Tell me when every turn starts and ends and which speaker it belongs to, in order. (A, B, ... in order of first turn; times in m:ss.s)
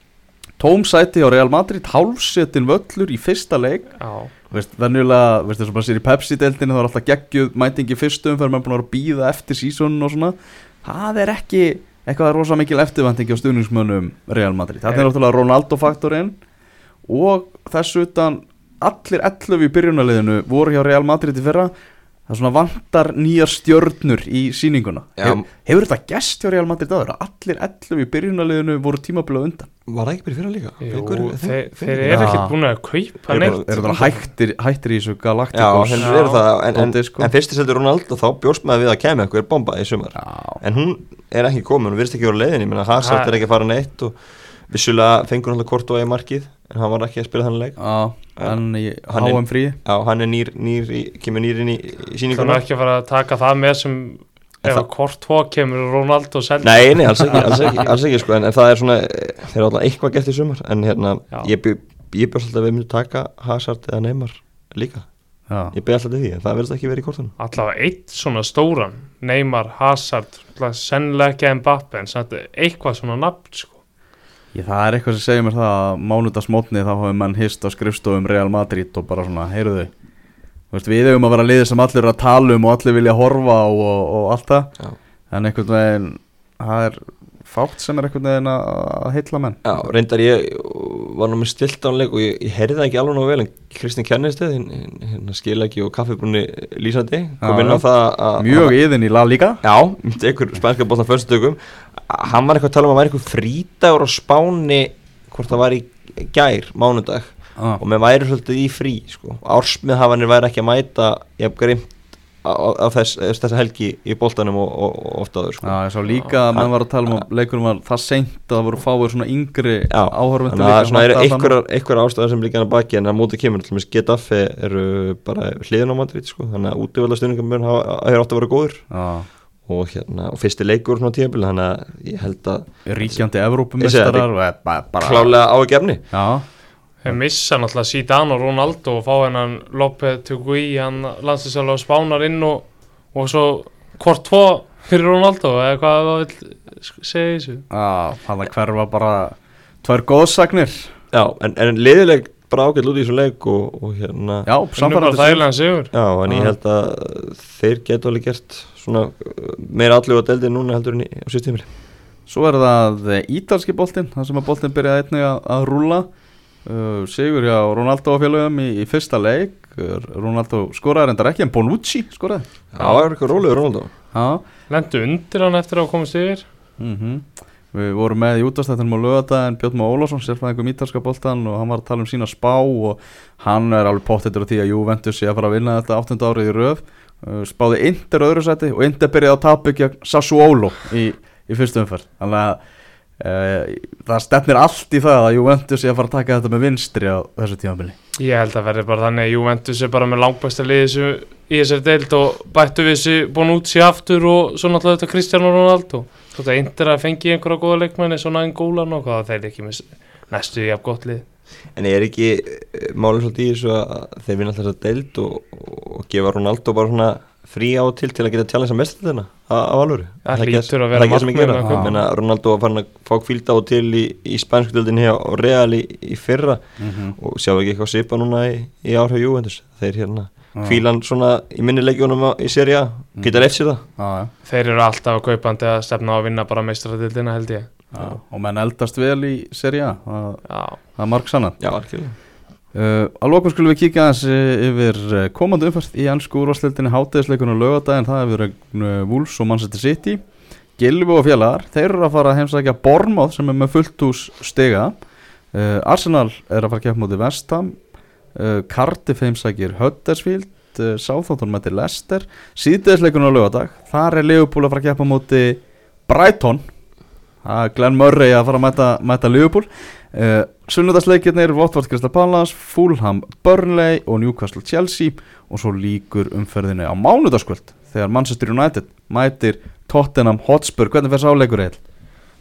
0:00.6-0:03.9 A
0:04.0-0:04.3 B
0:04.5-0:16.4 A
0:17.1-0:21.7 A
0:22.3-0:29.7 A
0:25.2-0:25.4 C
0:29.9-0:32.4 C
0:30.8-0:34.2 B
0:32.0-0:32.5 A
0:33.3-0:34.0 C
0:33.3-0:36.2 A
0:35.5-0:47.8 C
0:36.0-0:36.4 B
0:36.7-0:37.3 A
0:40.2-0:40.6 A
0:43.0-0:43.3 B
0:47.8-0:49.8 A
0:48.4-0:52.6 C
0:52.3-0:57.9 B
0:56.6-1:05.1 C
1:05.7-1:07.3 C
1:07.4-1:13.8 B
1:14.5-1:19.9 A
1:20.7-1:24.7 A
1:25.3-1:29.6 A
1:29.6-1:38.8 C
1:37.4-1:37.8 A
1:38.4-1:39.6 A
1:39.6-1:57.2 C
1:55.6-2:01.5 A
1:59.9-2:08.9 C
2:08.9-2:09.3 A
2:09.6-2:13.2 C
2:12.8-2:15.4 A
2:13.8-2:14.3 C
2:15.0-2:16.0 C
2:16.1-2:16.4 A
2:17.0-2:27.6 B
2:27.7-2:30.9 A
2:31.1-2:34.5 C
2:34.4-2:35.4 A
2:34.8-2:35.9 B
2:35.9-2:41.7 C
2:36.3-2:36.5 A
2:42.3-2:46.1 A
2:46.6-2:52.4 A
2:52.7-2:53.9 C
2:52.8-2:53.1 B
2:54.1-2:54.4 A
2:54.7-2:56.4 B
2:56.8-3:12.6 A
3:13.2-3:18.0 A
3:18.2-3:31.2 B
3:31.7-3:53.8 C
3:40.2-3:42.0 B
3:46.8-3:47.2 A
3:50.6-3:50.8 A
3:54.0-3:54.3 A
3:54.4-3:57.7 B
3:57.9-4:01.6 A
4:00.5-4:00.8 B
4:01.6-4:02.1 C
4:02.7-4:10.2 A
4:10.8-4:15.0 A
4:15.5-4:17.8 A
4:18.3-4:26.7 A
4:27.4-4:41.8 A